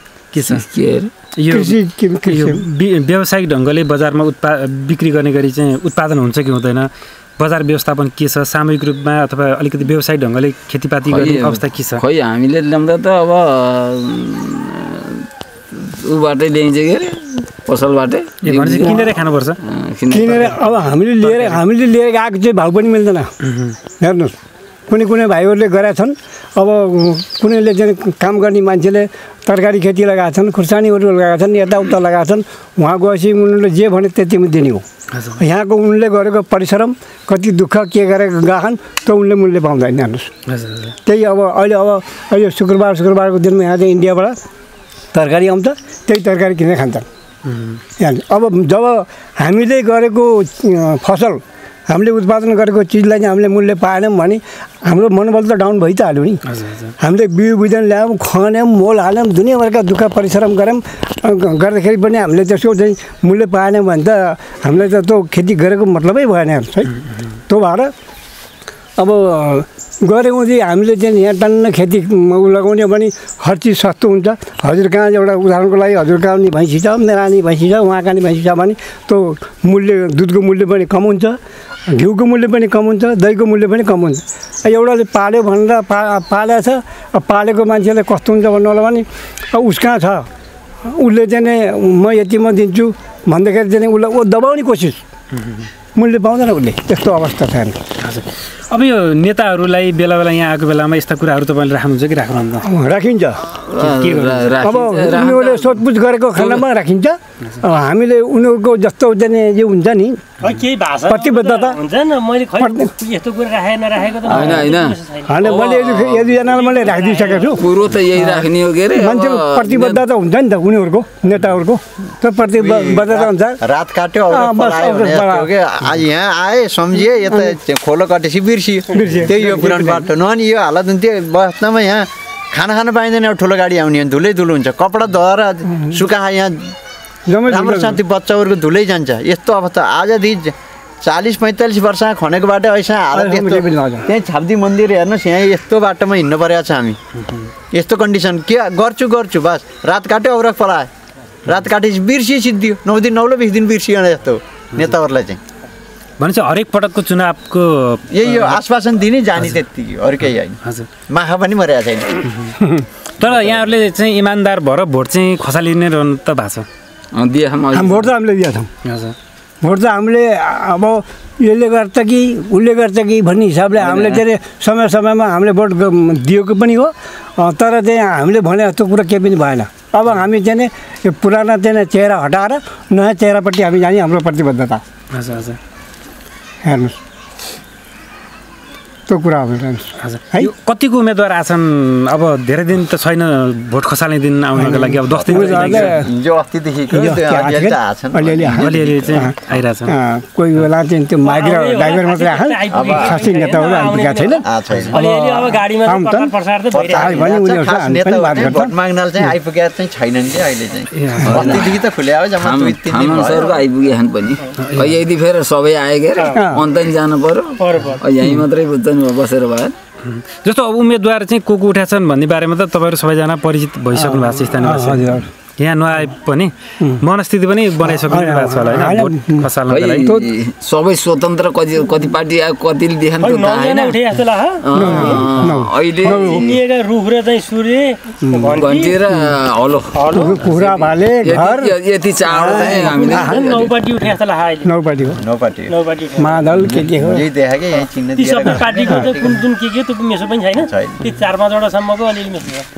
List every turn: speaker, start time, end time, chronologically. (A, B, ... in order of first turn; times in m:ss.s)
0:00.3-0:00.6 A
0:00.4-0:01.1 B
0:01.4-0:12.0 A
0:01.5-0:02.7 C
0:11.1-0:20.6 B
0:18.4-0:19.6 A
0:20.1-0:23.3 C
0:21.2-0:21.6 A
0:23.4-0:23.8 A
0:24.0-0:24.3 C
0:24.9-0:34.8 C
0:35.1-0:35.4 A
0:35.4-0:40.3 C
0:40.5-0:41.0 A
0:41.0-0:44.4 C
0:45.1-0:47.1 C
0:47.5-0:47.8 A
0:48.0-0:56.4 C
0:56.5-0:56.9 A
0:57.0-1:06.9 C
1:07.5-1:07.9 C
1:09.0-1:21.4 C
1:21.9-1:30.3 C
1:30.8-1:35.0 C
1:35.4-1:35.7 A
1:36.0-1:37.8 C
1:38.0-1:42.7 A
1:42.6-1:43.4 C
1:43.6-1:45.8 B
1:43.8-1:44.8 A
1:44.6-1:50.2 C
1:46.4-1:46.6 B
1:50.4-1:55.7 D
1:51.1-1:51.8 C
1:52.6-1:52.9 C
1:54.3-1:56.4 B
1:55.3-1:57.6 C
1:56.5-1:57.6 D
1:57.5-2:00.0 B
1:58.2-2:03.6 C
2:02.6-2:16.7 E
2:04.3-2:05.5 C
2:08.9-2:10.0 C
2:15.7-2:16.0 C
2:17.3-2:18.0 C
2:17.5-2:27.0 E
2:23.1-2:24.1 C
2:27.7-2:30.9 E
2:31.5-2:35.4 E
2:36.2-2:38.6 A
2:38.1-2:40.6 E
2:40.6-2:40.9 A
2:41.1-2:42.2 E
2:42.3-2:42.6 A
2:43.2-2:46.7 A
2:47.1-2:48.1 B
2:47.7-2:48.7 C
2:48.8-2:49.2 A
2:49.6-3:04.8 C
2:53.8-2:54.2 B
3:05.1-3:05.6 A
3:06.6-3:06.9 C
3:09.1-3:10.5 C
3:10.0-3:15.9 A
3:14.6-3:16.1 C
3:15.1-3:19.3 E
3:16.9-3:29.3 C
3:18.6-3:20.0 A
3:21.2-3:27.2 D
3:22.7-3:23.3 E
3:24.4-3:25.0 E
3:26.7-3:33.6 E
3:30.9-3:31.4 A
3:31.3-3:31.8 B
3:32.4-3:39.8 B
3:34.6-3:35.0 A
3:36.3-3:36.6 C
3:37.6-3:38.0 D
3:40.0-3:50.2 A
3:43.9-3:45.3 C
3:47.8-3:50.3 C
3:49.7-3:54.0 B
3:53.2-3:55.3 D
3:54.6-3:56.6 B
3:54.7-3:56.6 C
3:56.1-3:59.0 D
3:58.2-3:58.6 C
3:58.6-4:03.7 B
4:00.0-4:00.4 D
4:00.1-4:03.4 C
4:02.4-4:04.7 D
4:04.6-4:05.2 C
4:05.2-4:05.8 E
4:05.7-4:06.5 D
4:06.2-4:07.2 C
4:06.6-4:09.4 E
4:08.2-4:12.6 D
4:08.6-4:09.1 C
4:10.6-4:11.0 E